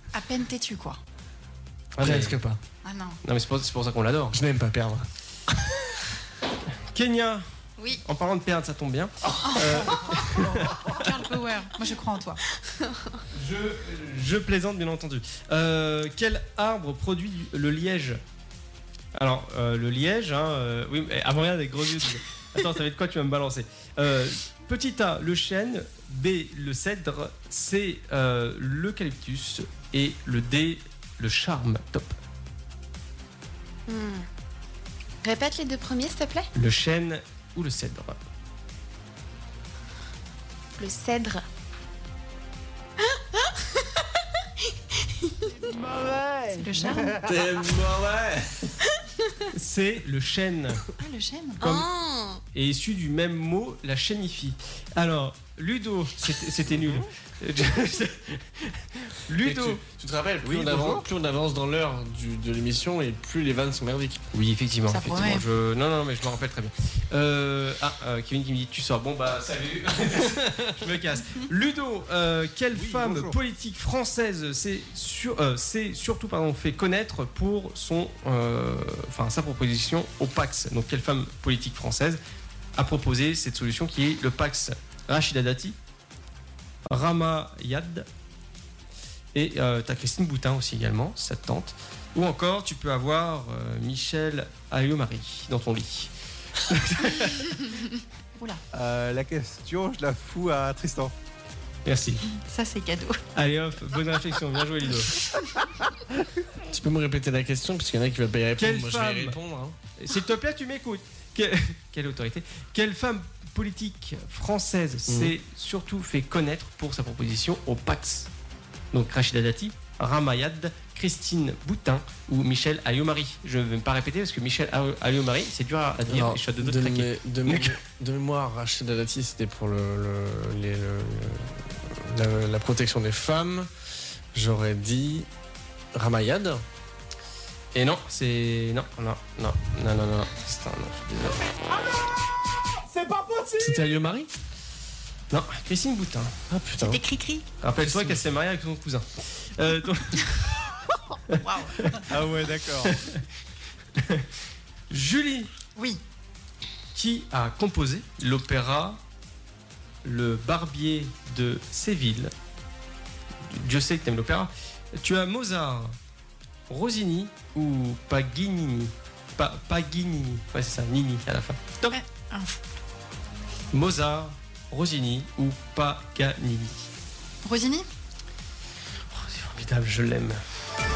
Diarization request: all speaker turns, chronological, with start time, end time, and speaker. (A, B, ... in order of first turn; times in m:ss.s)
0:00.1-0:01.0 A
0:02.0-0:02.6 B
0:02.0-0:02.4 C
0:02.8-0:03.2 A
0:03.2-0:04.4 C
0:04.3-0:05.1 B
0:06.9-0:07.4 C
0:08.0-0:11.1 C
0:09.4-0:12.4 A
0:13.3-0:18.2 C
0:19.2-0:32.2 C
0:33.9-0:34.3 D
0:35.2-0:36.5 D
0:36.6-0:38.2 C
0:40.8-0:41.4 D
0:46.5-0:47.2 A
0:47.1-0:48.7 B
0:49.5-0:50.9 C
0:51.0-0:51.8 A
0:51.6-0:51.9 C
0:51.6-0:52.4 D
0:52.5-0:59.8 C
0:59.4-1:04.2 B
1:00.5-1:01.0 E
1:04.3-1:22.2 C
1:04.9-1:05.5 A
1:12.7-1:13.4 E
1:22.8-1:25.8 C
1:26.9-1:28.1 C
1:29.3-1:37.6 C
1:38.4-1:38.6 A
1:38.7-1:41.1 E
1:41.8-1:42.2 C
1:42.3-1:43.2 A
1:43.3-1:45.2 C
1:46.6-1:49.8 B
1:48.6-1:49.4 C
1:50.0-1:58.3 C
1:55.1-1:55.3 B
1:58.9-2:07.8 C
2:06.1-2:13.7 B
2:14.3-2:15.3 B
2:15.9-2:16.6 B
2:17.7-2:21.5 C
2:23.0-2:23.3 C
2:23.6-2:24.3 B
2:25.3-2:26.3 C
2:26.5-2:27.0 B
2:26.8-2:27.4 A
2:27.6-2:30.5 C
2:27.8-2:28.2 B
2:31.3-2:32.0 C
2:31.3-2:31.8 A
2:32.1-2:33.0 E
2:32.8-2:33.2 C
2:34.0-2:34.3 C
2:34.9-2:35.5 C
2:35.8-2:36.0 A
2:37.0-2:39.0 C
2:40.0-2:42.3 C
2:43.5-2:46.0 C
2:46.7-2:52.0 C
2:51.9-2:52.6 A
2:53.7-2:56.9 C
2:57.4-2:57.9 A
2:59.1-3:00.4 C